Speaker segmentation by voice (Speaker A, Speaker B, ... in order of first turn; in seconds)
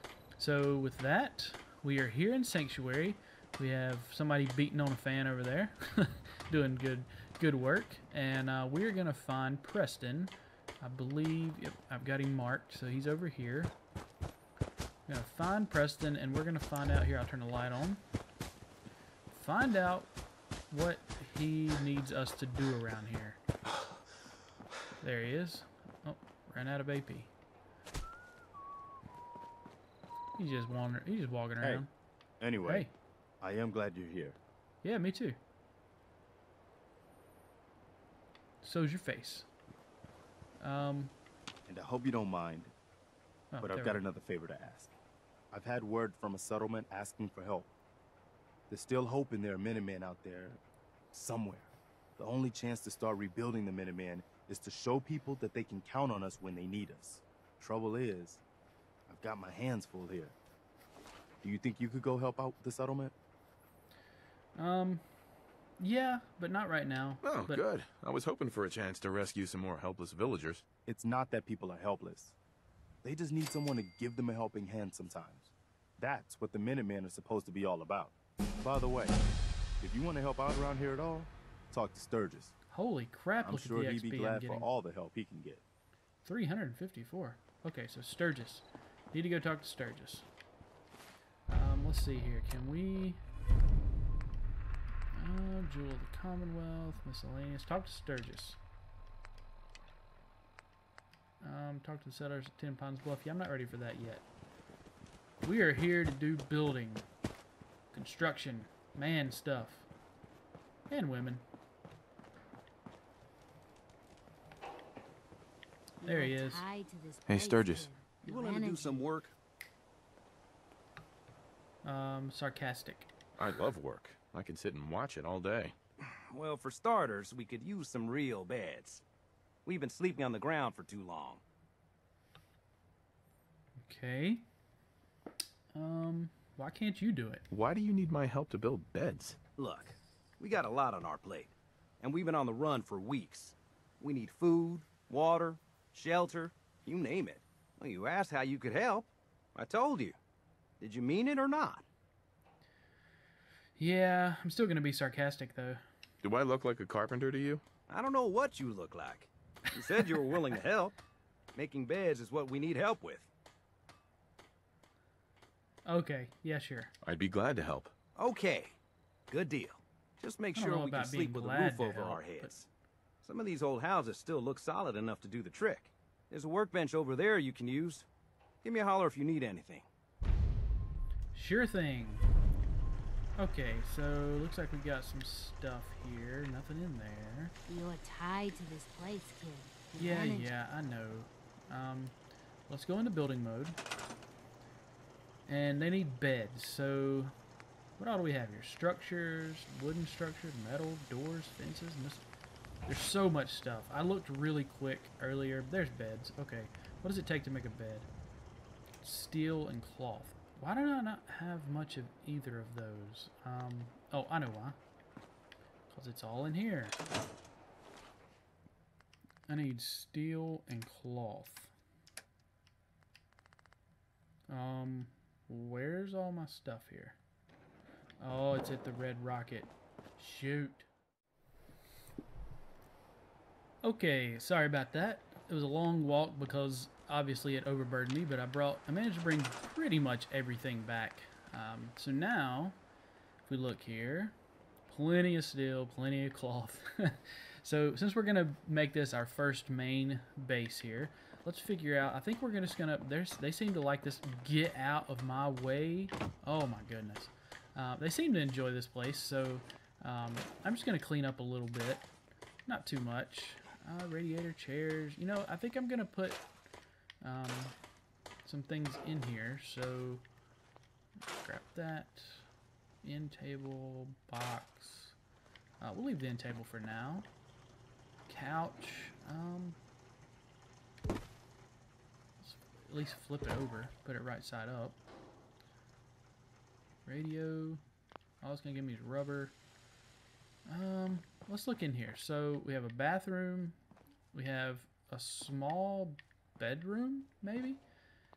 Speaker A: 0.4-13.7, 15.1-18.0, 19.3-20.1, 20.7-23.4, 25.0-27.3, 30.4-31.9, 32.6-32.9, 34.8-35.4, 38.6-39.5, 40.6-41.1, 43.5-44.0, 64.6-65.0, 65.8-67.6, 82.7-84.7, 86.2-90.3, 91.5-93.2, 95.1-98.6, 101.4-104.2, 105.4-107.1, 107.9-109.9, 110.9-111.5, 116.0-116.6, 121.8-123.1, 133.8-134.5, 135.8-137.4, 153.8-155.8, 165.8-166.9, 170.6-172.5, 181.3-182.2, 183.4-187.6, 190.0-192.2, 192.7-193.8, 195.5-197.3, 198.0-202.2, 202.9-208.1, 209.0-214.8, 215.9-217.0, 219.5-221.7, 224.5-227.2, 228.2-230.9, 233.8-242.8, 243.5-244.4, 244.9-262.1, 262.7-266.4, 267.2-267.8, 268.4-270.2, 271.3-272.5, 273.0-275.2, 275.8-277.3, 278.3-279.8, 282.4-285.0, 287.1-287.8, 288.4-289.6, 290.7-293.8, 294.3-297.8
Speaker B: 31.6-31.9, 32.4-32.9, 33.4-34.4, 41.7-42.7, 43.6-44.9, 45.5-47.7, 48.7-50.6, 51.1-58.4, 59.1-60.4, 61.4-63.1, 70.9-72.4, 73.0-79.2, 79.8-82.5, 83.4-85.6
Speaker C: 67.2-70.6, 117.3-117.9, 123.4-125.8, 137.5-139.4, 156.2-157.6, 167.0-167.9
Speaker D: 116.0-119.1, 187.7-190.5
Speaker E: 118.2-119.3, 126.0-129.0, 129.7-131.4, 139.6-150.2, 150.8-151.8, 157.9-160.9, 161.6-163.3, 168.2-168.8, 169.3-172.7, 173.2-178.1, 178.6-179.9